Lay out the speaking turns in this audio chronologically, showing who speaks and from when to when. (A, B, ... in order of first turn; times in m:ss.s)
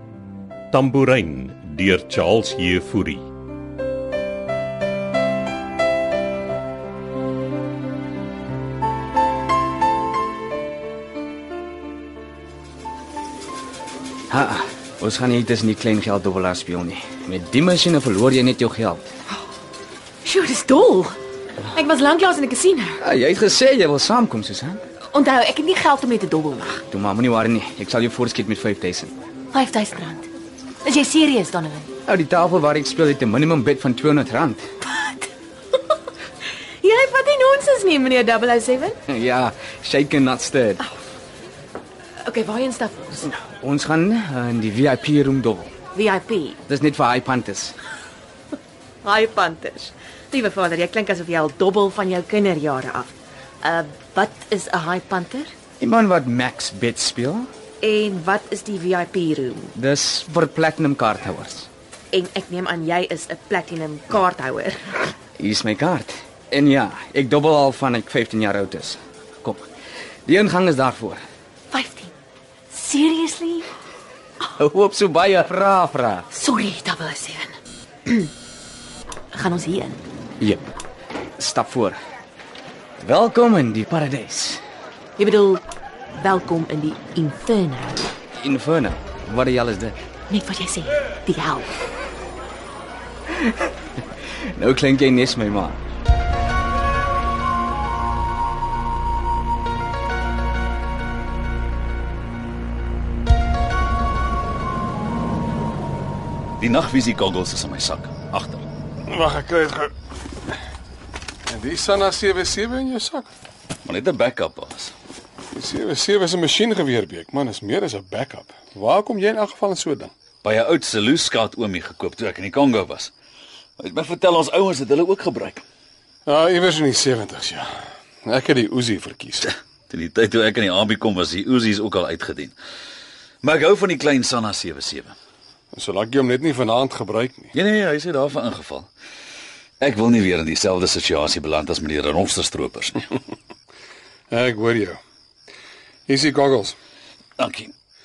0:00.7-0:03.3 A
0:14.3-0:19.1 B
0:20.2-0:21.2 C
0:21.7-0:23.0 C
0:23.0-0:24.8 B
0:25.1-0:26.8 C
0:26.9-0:29.1 B
0:29.5-0:30.3 C
0:30.8-0:31.9 C
0:32.0-0:34.7 B
0:34.8-0:35.3 C
0:36.8-0:39.0 C
0:39.1-0:40.8 B
0:42.2-0:43.2 C
0:43.2-0:45.7 B
0:45.9-0:46.6 C
0:46.7-0:47.8 B
0:49.0-0:55.5 C
0:55.8-0:57.5 B
0:57.8-0:59.7 C
0:59.7-1:01.7 B
1:02.1-1:05.1 C
1:05.4-1:09.7 B
1:10.2-1:11.2 B
1:11.7-1:12.1 C
1:12.7-1:13.7 C
1:14.5-1:16.3 B
1:16.3-1:18.3 C
1:19.3-1:20.0 C
1:20.4-1:20.7 B
1:21.4-1:22.0 B
1:23.0-1:24.6 B
1:25.2-1:28.1 C
1:28.4-1:30.0 B
1:30.3-1:31.7 C
1:33.3-1:33.7 B
1:34.2-1:35.8 B
1:46.6-1:48.6 D
1:49.1-1:49.9 E
1:51.5-1:53.3 E
1:53.8-1:54.9 D
1:55.5-2:00.1 E
2:00.4-2:03.1 D
2:03.8-2:05.6 D
2:06.2-2:07.7 E
2:08.2-2:09.5 E
2:09.9-2:12.5 D
2:13.4-2:15.1 D
2:15.7-2:17.5 E
2:17.5-2:18.9 D
2:19.8-2:23.0 D
2:24.3-2:25.0 E
2:26.1-2:26.8 E
2:27.4-2:27.7 D